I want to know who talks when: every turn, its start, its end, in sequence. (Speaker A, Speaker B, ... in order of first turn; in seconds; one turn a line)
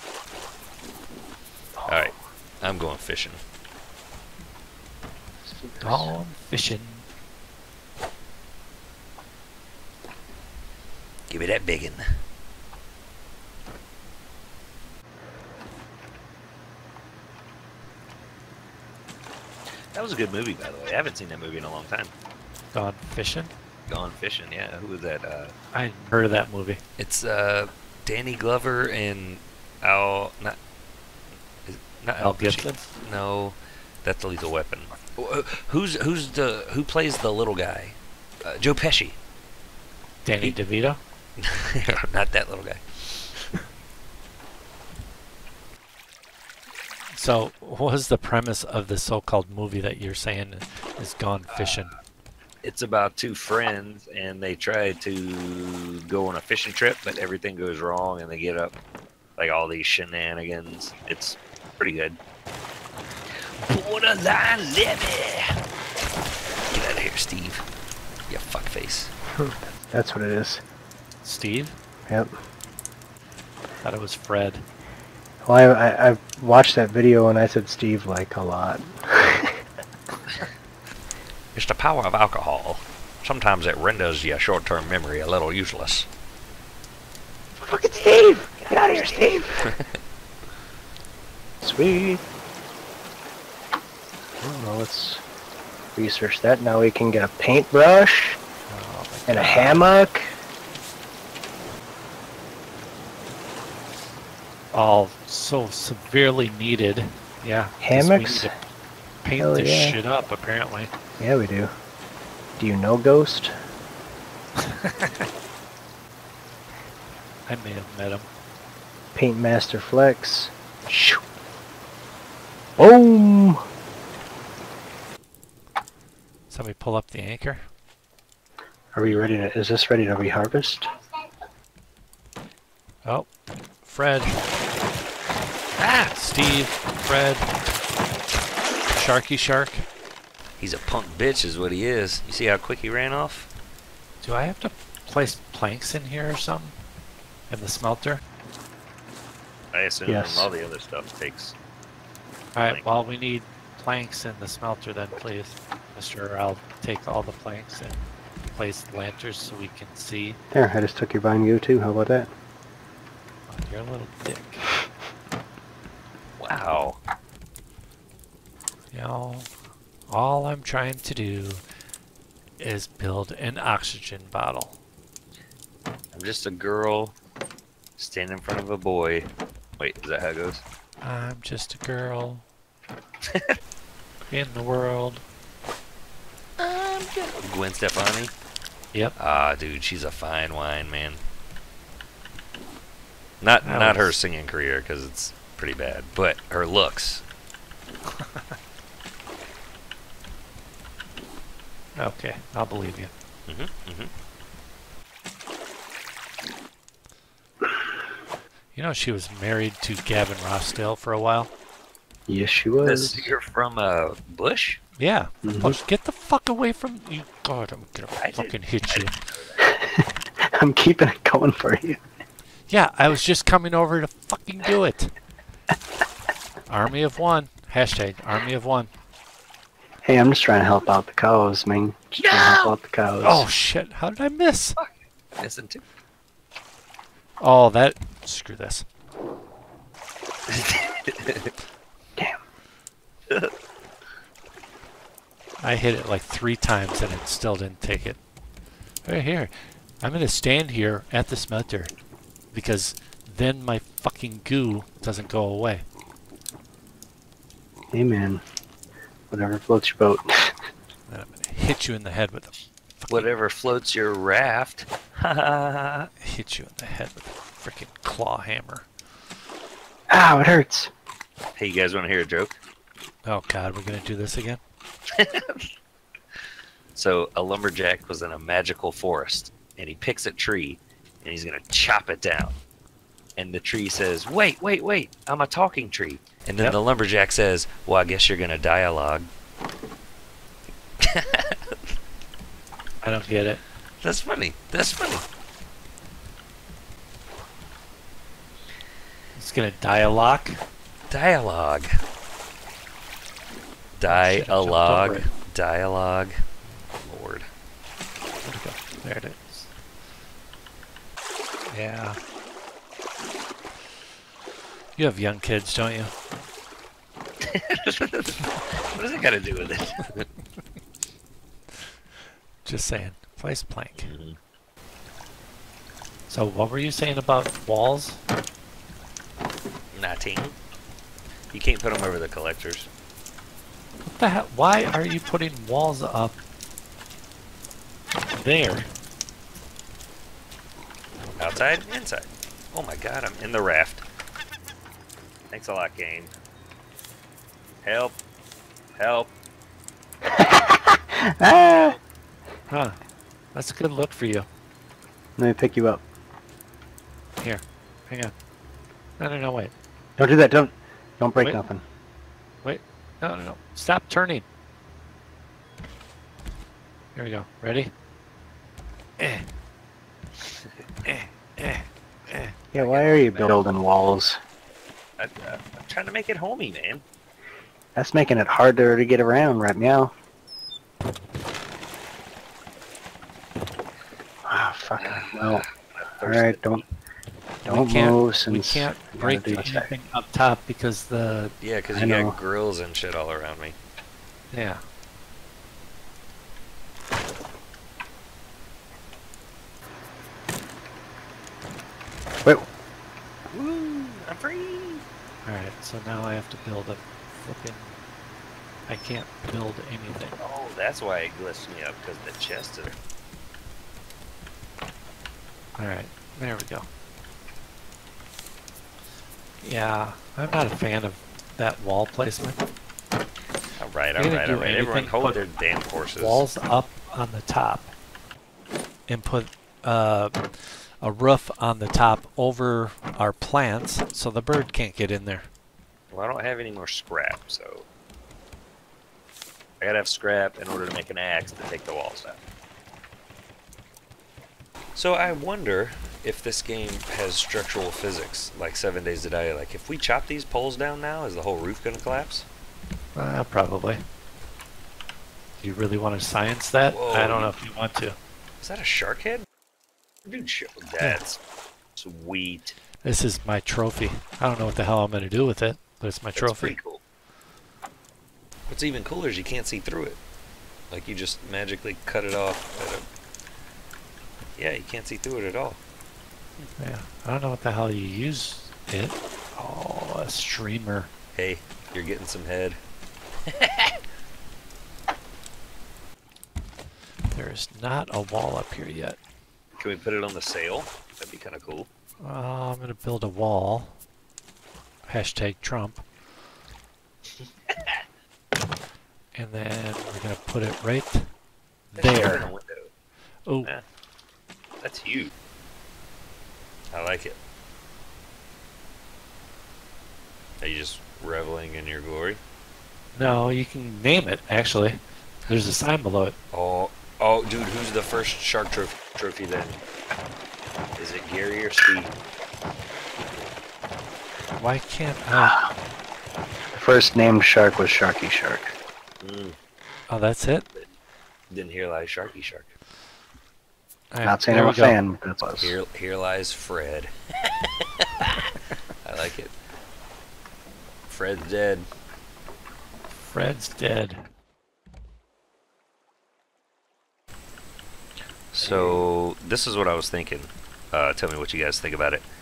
Speaker A: 1.8-2.2
Speaker B: 1.9-3.4
Speaker A: 5.4-6.1
Speaker C: 5.8-7.0
Speaker B: 11.3-12.2
Speaker B: 19.9-22.1
Speaker C: 22.7-23.5
Speaker B: 23.9-25.5
Speaker C: 25.7-26.8
Speaker B: 27.0-30.6
Speaker B: 31.7-39.2
Speaker C: 32.2-32.9
Speaker C: 40.2-41.0
Speaker B: 41.4-43.3
Speaker C: 47.1-51.9
Speaker B: 52.6-58.8
Speaker B: 59.4-62.2
Speaker B: 63.6-65.6
Speaker B: 66.7-67.7
Speaker B: 68.3-69.1
Speaker A: 69.4-70.6
Speaker C: 71.2-71.8
Speaker A: 72.1-72.3
Speaker C: 73.8-74.7
Speaker A: 75.5-79.6
Speaker B: 81.5-86.1
Speaker C: 87.6-89.7
Speaker A: 88.7-89.4
Speaker A: 91.6-92.2
Speaker A: 94.4-95.2
Speaker A: 96.0-98.4
Speaker C: 98.7-99.9
Speaker A: 99.3-100.4
Speaker C: 104.7-108.5
Speaker A: 107.8-108.5
Speaker C: 109.2-110.9
Speaker A: 109.4-110.0
Speaker A: 111.2-111.7
Speaker A: 112.6-113.6
Speaker C: 114.6-115.2
Speaker C: 117.5-118.3
Speaker A: 119.2-121.2
Speaker A: 122.8-123.6
Speaker C: 126.5-127.6
Speaker A: 128.9-130.9
Speaker C: 133.8-134.4
Speaker C: 135.8-137.6
Speaker C: 138.9-139.9
Speaker B: 140.6-143.5
Speaker C: 144.2-146.8
Speaker C: 147.5-148.2
Speaker B: 149.7-151.6
Speaker A: 150.1-150.5
Speaker C: 152.5-160.4
Speaker A: 160.5-162.3
Speaker C: 163.5-164.7
Speaker B: 166.4-167.0
Speaker C: 168.9-169.5
Speaker C: 170.1-171.6
Speaker C: 172.6-174.8
Speaker B: 176.1-177.2
Speaker B: 178.0-180.6
Speaker C: 181.0-182.4
Speaker B: 183.3-183.5
Speaker C: 184.3-185.2
Speaker B: 186.6-188.3
Speaker B: 189.2-191.2
Speaker B: 193.4-197.2
Speaker C: 193.6-194.2
Speaker C: 198.1-198.6
Speaker C: 202.0-203.1
Speaker B: 203.5-204.1
Speaker C: 208.8-211.5
Speaker A: 212.3-213.3
Speaker B: 212.8-214.8
Speaker C: 215.0-219.1
Speaker A: 215.4-215.8
Speaker B: 218.2-219.6
Speaker A: 219.6-222.0
Speaker C: 222.7-225.1
Speaker C: 226.7-228.9
Speaker A: 230.0-233.5
Speaker B: 232.2-232.7
Speaker C: 233.2-234.8
Speaker B: 234.8-235.8
Speaker C: 237.4-238.9
Speaker B: 240.5-241.5
Speaker C: 245.6-248.2
Speaker C: 249.1-251.9
Speaker C: 252.5-255.8
Speaker A: 257.9-258.4
Speaker A: 259.3-260.5
Speaker C: 261.1-263.3
Speaker B: 263.1-266.1
Speaker C: 266.2-268.9
Speaker A: 270.1-270.9
Speaker B: 271.6-272.6
Speaker C: 273.2-274.6
Speaker B: 275.2-275.7
Speaker B: 276.9-282.6
Speaker B: 283.4-289.3
Speaker B: 291.1-291.6
Speaker C: 293.0-293.6
Speaker B: 294.0-295.2
Speaker C: 299.4-300.6
Speaker B: 301.1-301.9
Speaker B: 304.0-306.4
Speaker C: 304.1-305.3
Speaker B: 307.0-307.5
Speaker C: 308.4-309.7
Speaker C: 311.7-312.2
Speaker C: 315.0-316.1
Speaker B: 317.4-320.3
Speaker C: 322.6-324.1
Speaker B: 324.0-324.4
Speaker C: 326.3-328.2
Speaker B: 329.9-330.6
Speaker B: 331.5-332.9
Speaker C: 334.1-336.4
Speaker C: 338.4-338.9
Speaker B: 341.4-344.0
Speaker B: 345.5-346.3
Speaker B: 347.8-348.2
Speaker B: 349.0-349.3
Speaker A: 350.3-352.0
Speaker C: 352.7-353.0
Speaker C: 353.5-354.5
Speaker A: 355.4-356.0
Speaker C: 357.4-358.3
Speaker C: 359.2-359.7
Speaker A: 360.2-361.8
Speaker C: 362.6-364.5
Speaker C: 367.1-367.9
Speaker C: 369.2-369.5
Speaker C: 371.1-372.6
Speaker A: 372.7-374.4
Speaker B: 372.8-373.7
Speaker B: 375.2-377.0
Speaker A: 378.0-380.1
Speaker A: 384.5-385.6
Speaker B: 385.0-386.7
Speaker A: 386.2-386.8
Speaker C: 387.6-391.5
Speaker A: 387.7-389.9
Speaker B: 391.6-393.8
Speaker A: 391.9-392.4
Speaker C: 394.5-394.8
Speaker B: 403.5-405.0
Speaker C: 405.4-408.0
Speaker C: 408.9-410.4
Speaker B: 410.4-413.0
Speaker C: 415.8-416.9
Speaker C: 419.6-422.6
Speaker B: 423.8-426.5
Speaker C: 424.2-425.4
Speaker C: 426.2-427.9
Speaker C: 429.1-435.5
Speaker B: 436.1-437.9
Speaker B: 439.8-442.4
Speaker B: 444.9-452.5
Speaker C: 453.1-454.0
Speaker C: 455.6-458.2
Speaker B: 456.9-457.6
Speaker B: 458.6-459.4
Speaker B: 460.2-461.4
Speaker B: 462.0-462.8
Speaker C: 463.0-466.8
Speaker B: 466.4-467.0
Speaker B: 468.7-470.2
Speaker B: 470.9-473.1
Speaker B: 474.6-475.8
Speaker C: 476.8-481.1
Speaker B: 481.3-482.8
Speaker B: 483.6-483.9
Speaker C: 487.3-489.2
Speaker B: 489.8-491.9
Speaker C: 492.2-494.0
Speaker C: 495.1-496.0
Speaker C: 499.3-501.3
Speaker C: 501.9-502.5
Speaker B: 501.9-502.9
Speaker C: 503.5-503.7
Speaker B: 504.8-505.3
Speaker B: 506.9-507.4
Speaker B: 510.6-512.4
Speaker C: 513.1-516.4
Speaker B: 516.5-519.8
Speaker B: 521.0-522.2
Speaker C: 524.6-525.5
Speaker A: 525.3-525.7
Speaker A: 526.7-528.8
Speaker B: 529.2-529.6
Speaker C: 530.1-530.7
Speaker B: 531.5-532.7
Speaker C: 534.1-535.0
Speaker A: 534.2-535.8
Speaker B: 535.6-537.1
Speaker B: 539.0-539.5
Speaker B: 541.1-541.9
Speaker C: 543.2-544.2
Speaker B: 548.5-552.2
Speaker A: 548.6-549.0